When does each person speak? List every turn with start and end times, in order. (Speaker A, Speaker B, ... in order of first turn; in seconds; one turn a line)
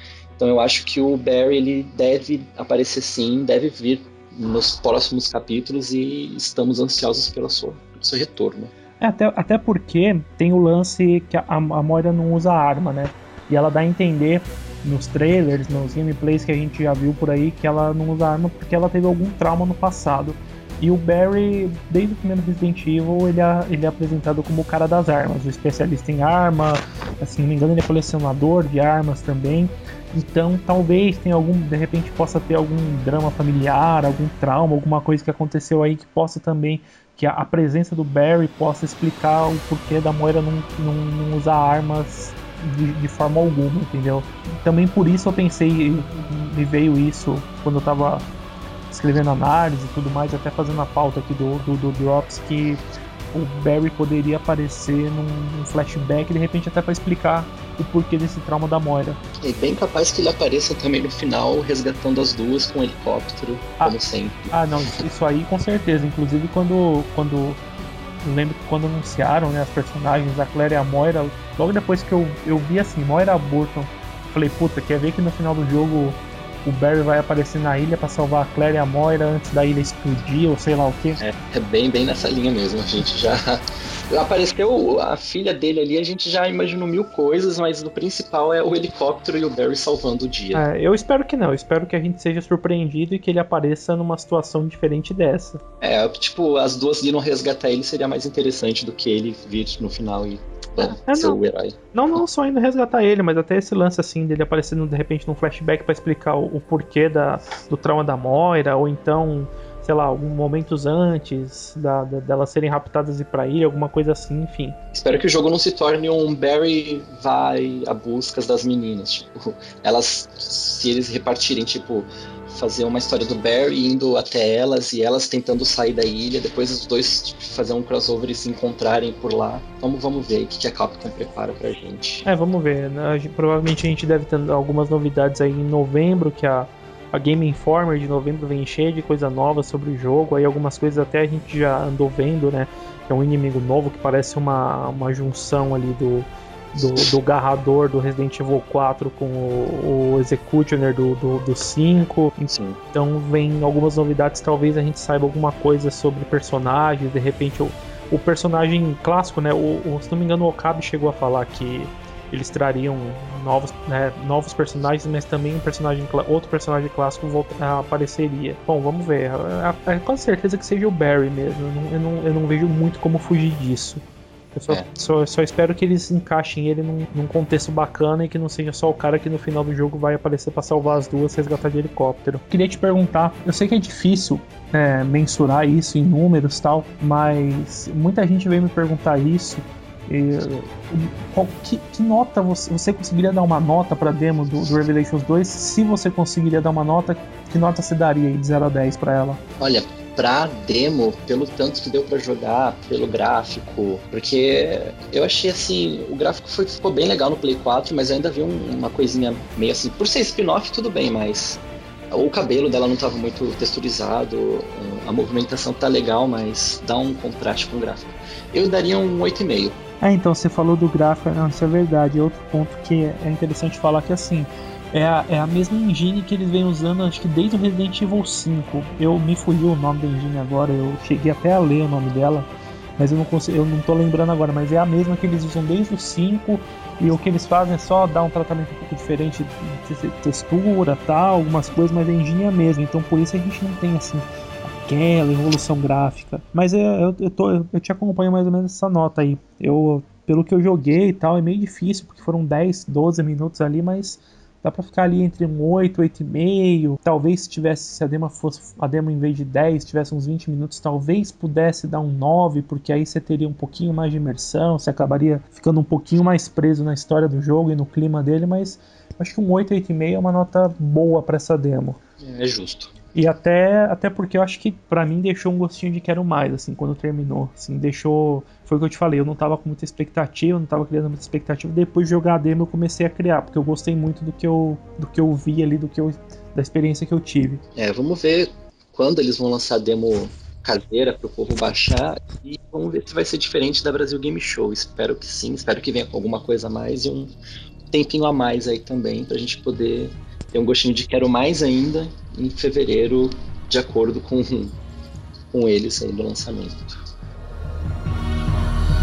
Speaker A: 0.4-8.7
Speaker B: 9.0-48.3
Speaker B: 48.9-52.8
Speaker B: 53.3-59.2
Speaker A: 59.4-64.5
Speaker B: 64.5-67.6
Speaker B: 68.2-81.2
Speaker A: 81.2-90.7
Speaker B: 90.5-95.6
Speaker A: 95.8-101.8
Speaker B: 101.0-101.4
Speaker B: 101.9-114.8
Speaker A: 114.9-132.2
Speaker B: 132.2-174.0
Speaker A: 152.5-152.8
Speaker B: 174.5-199.4
Speaker A: 199.6-219.8
Speaker B: 220.0-272.0
Speaker A: 272.2-272.9
Speaker B: 273.1-287.6
Speaker A: 287.8-297.3
Speaker A: 297.9-304.8
Speaker A: 305.5-307.0